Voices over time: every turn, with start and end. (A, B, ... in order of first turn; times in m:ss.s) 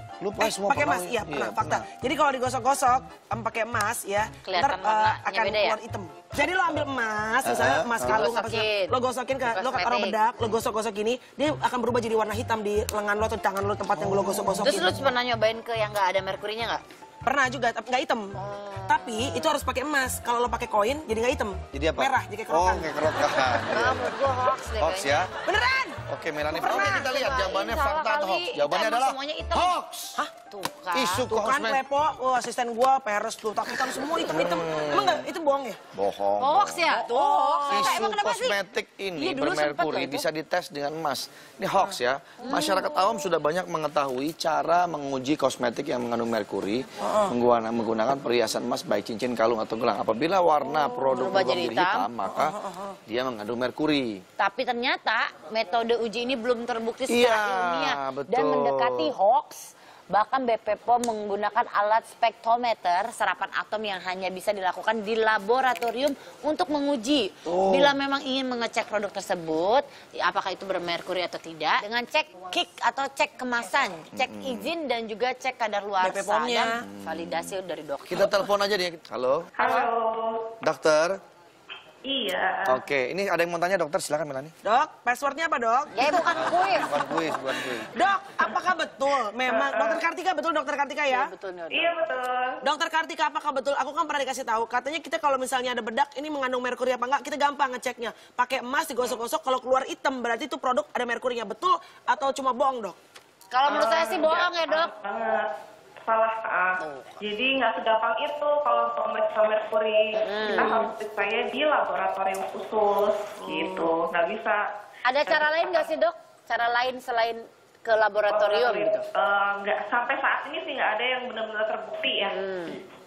0:00.2-0:01.9 A
0:00.4-0:15.1 B
0:04.4-0:05.8 C
0:07.4-0:08.3 A
0:08.1-0:10.2 C
0:14.0-0:14.5 A
0:14.5-0:16.8 C
0:17.2-0:23.6 B
0:18.4-0:19.5 C
0:21.7-0:24.2 A
0:23.7-0:25.3 C
0:24.8-0:25.3 A
0:25.4-0:27.1 B
0:26.1-0:30.2 A
0:26.5-0:29.8 C
0:30.5-0:31.3 C
0:30.9-0:31.8 A
0:31.3-0:35.8 B
0:34.2-0:35.2 A
0:35.9-0:36.9 A
0:36.4-0:38.6 C
0:36.9-0:38.1 B
0:37.7-0:52.6 A
0:39.2-0:40.2 C
0:42.4-0:43.1 C
0:47.0-0:47.3 B
0:51.0-0:52.1 C
0:52.2-0:53.0 B
0:53.1-0:54.2 A
0:54.4-1:18.4 C
0:57.1-0:59.2 A
1:07.5-1:07.9 B
1:14.1-1:14.7 A
1:16.0-1:16.8 B
1:16.8-1:17.6 A
1:18.1-1:19.5 A
1:19.6-1:20.5 D
1:19.6-1:19.9 C
1:20.6-1:21.2 A
1:22.1-1:22.8 D
1:22.7-1:24.6 A
1:24.6-1:26.4 B
1:25.9-1:27.0 C
1:26.2-1:28.0 A
1:27.9-1:31.3 B
1:29.4-1:30.0 D
1:31.1-1:31.9 C
1:31.7-1:32.6 D
1:32.6-1:43.0 B
1:43.5-1:44.9 C
1:43.7-1:45.5 D
1:46.0-1:54.6 D
1:46.8-1:47.2 C
1:50.2-1:50.9 C
1:53.5-1:53.9 C
1:55.0-1:59.0 C
1:55.2-1:55.9 D
1:58.3-2:02.4 D
2:02.3-2:02.8 C